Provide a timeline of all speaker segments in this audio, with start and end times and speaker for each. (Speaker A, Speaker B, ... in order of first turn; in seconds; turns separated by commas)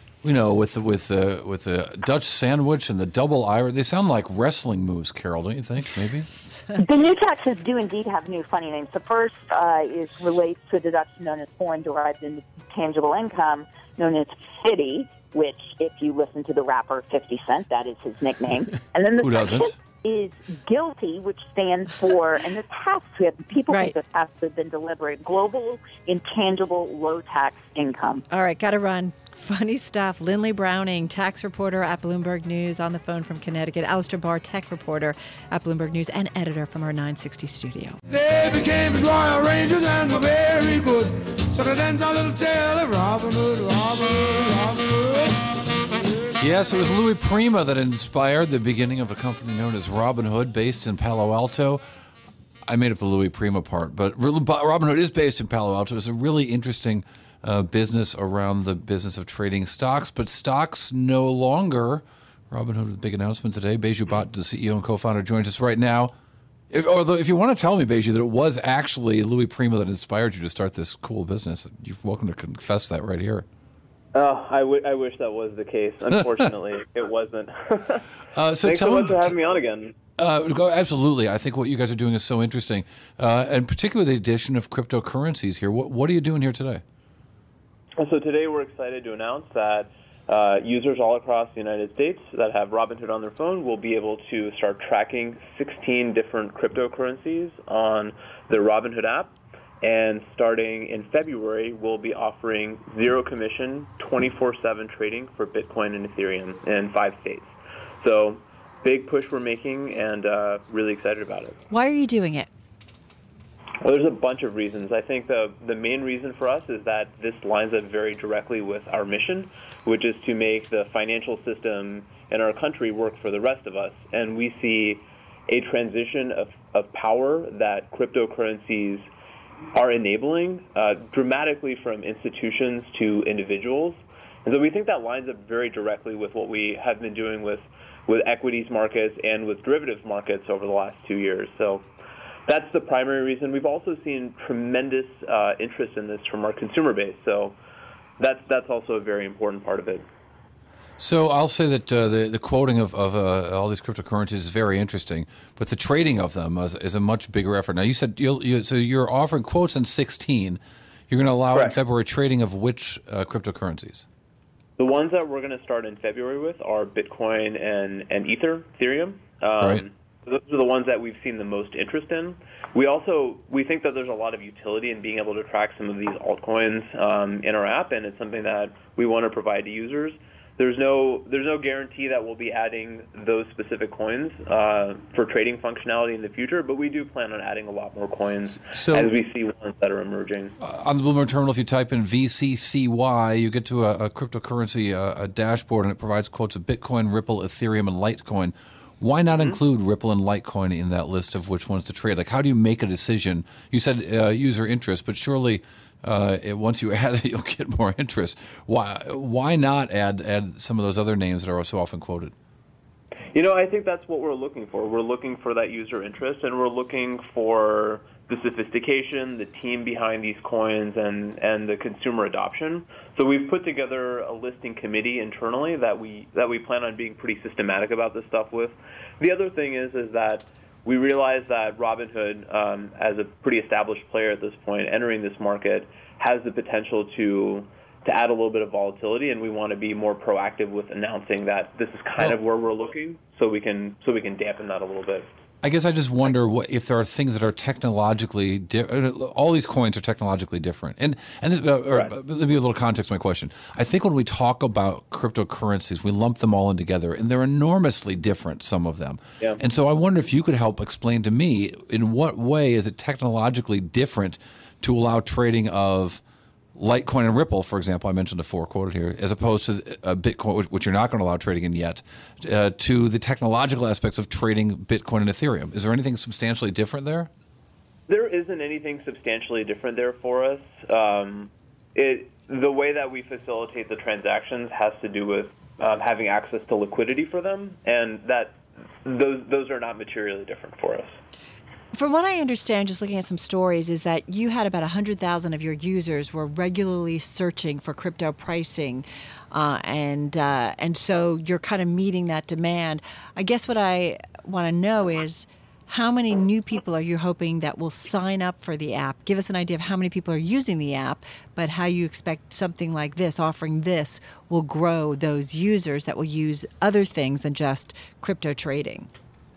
Speaker A: 0.2-6.3, Speaker B: 6.3-6.8, Speaker C: 6.8-28.2, Speaker A: 19.2-19.7, Speaker B: 23.7-23.9, Speaker B: 28.3-38.0, Speaker D: 38.1-45.4, Speaker A: 46.4-51.8, Speaker A: 52.7-66.1, Speaker A: 66.7-73.5, Speaker E: 74.1-78.0, Speaker A: 78.3-79.3, Speaker E: 78.6-80.0, Speaker A: 80.2-86.8, Speaker E: 88.0-111.6, Speaker B: 111.7-112.5, Speaker E: 113.8-129.1, Speaker E: 129.7-141.9, Speaker E: 142.4-147.6, Speaker E: 148.2-150.1, Speaker A: 151.0-164.0, Speaker E: 161.5-161.8, Speaker E: 164.8-190.6, Speaker A: 169.6-169.8, Speaker A: 188.7-189.1, Speaker A: 190.6-212.3, Speaker E: 199.3-199.6, Speaker E: 213.3-245.3, Speaker A: 245.6-266.2, Speaker E: 251.9-252.2, Speaker A: 266.7-277.3, Speaker E: 278.1-291.1, Speaker B: 291.9-319.1